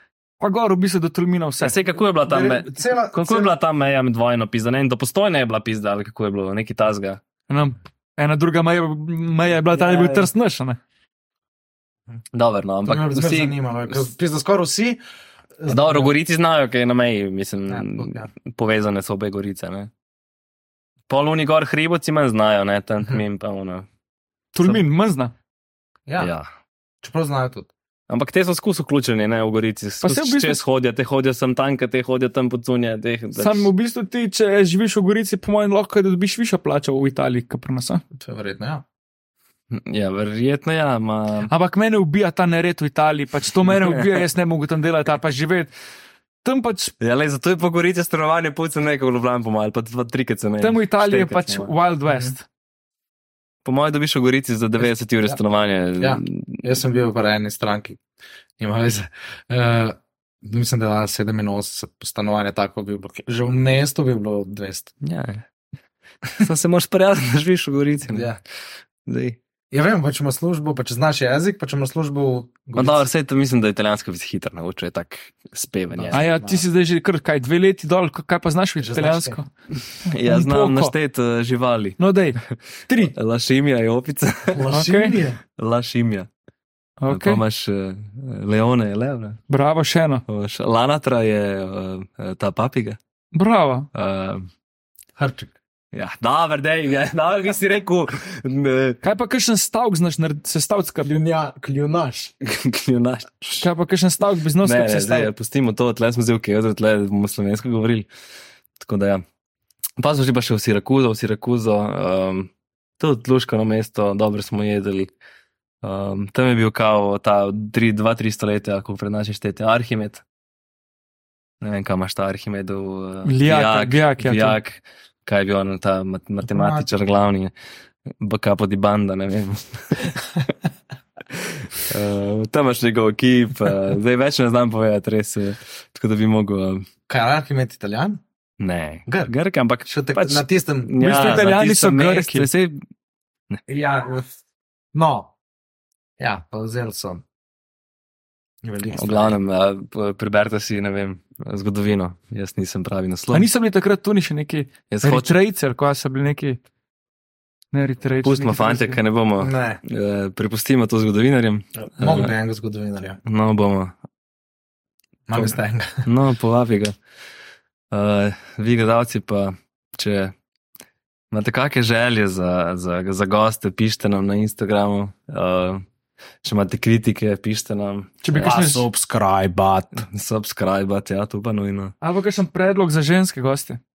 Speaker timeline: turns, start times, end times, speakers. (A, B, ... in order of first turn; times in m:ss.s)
0:00.4-0:01.8 A
0:01.6-0:07.2 B
0:02.2-0:03.5 C
0:07.5-0:10.8 A
0:09.8-0:10.2 B
0:12.3-0:14.1 B
0:12.8-0:15.0 C
0:15.6-0:16.1 C
0:15.7-0:19.9 B
0:17.7-0:18.3 C
0:21.1-0:23.9 B
0:24.5-0:25.3 A
0:26.1-0:26.3 C
0:26.2-0:26.5 B
0:27.0-0:27.7 C
0:28.1-0:33.7 B
0:30.0-0:30.6 A
0:33.4-0:38.0 A
0:38.1-0:38.8 C
0:39.7-0:41.5 B
0:41.5-0:45.8 A
0:44.0-0:44.2 B
0:46.4-0:46.9 A
0:47.0-0:51.7 B
0:50.6-0:52.4 A
0:53.6-0:56.6 B
0:54.8-0:55.4 C
0:56.0-0:58.0 C
0:58.6-1:04.9 C
1:05.0-1:05.4 B
1:06.3-1:08.3 B
1:08.1-1:08.4 C
1:09.0-1:09.4 B
1:09.7-1:13.1 C
1:12.8-1:16.2 B
1:15.9-1:16.6 C
1:16.1-1:19.5 A
1:18.8-1:19.4 C
1:20.0-1:24.7 B
1:20.1-1:20.9 A
1:22.0-1:23.1 A
1:24.5-1:25.4 C
1:24.7-1:25.3 A
1:25.6-1:26.3 B
1:27.0-1:27.4 A
1:27.1-1:29.4 B
1:29.5-1:30.2 A
1:30.3-1:33.0 B
1:33.3-1:33.9 A
1:33.9-1:34.5 B
1:35.2-1:35.6 C
1:35.9-1:39.0 B
1:39.0-1:41.1 A
1:41.0-1:42.3 C
1:42.4-1:43.7 B
1:43.6-1:45.3 A
1:44.6-1:48.1 B
1:48.8-1:49.2 B
1:50.0-1:55.1 B
1:55.8-2:00.2 B
2:01.6-2:07.5 B
2:03.3-2:04.6 A
2:06.5-2:06.9 C
2:08.2-2:10.3 B
2:11.3-2:16.9 B
2:17.1-2:18.2 C
2:18.6-2:22.8 B
2:19.1-2:19.3 C
2:19.9-2:21.5 C
2:21.0-2:22.5 A
2:23.7-2:24.3 C
2:24.9-2:25.3 C
2:26.2-2:27.2 C
2:28.6-2:29.4 C
2:29.0-2:33.5 B
2:33.3-2:36.6 A
2:34.9-2:35.4 B
2:37.7-2:39.0 A
2:38.2-2:42.3 B
2:39.4-2:39.8 C
2:41.9-2:43.2 C
2:43.2-2:43.9 B
2:45.3-2:46.1 C
2:45.4-2:46.9 B
2:47.9-2:50.3 B
2:51.3-2:55.8 B
2:56.4-2:58.6 B
2:58.2-2:58.9 A
2:58.4-3:00.0 C
2:59.9-3:01.9 B
3:02.0-3:03.8 A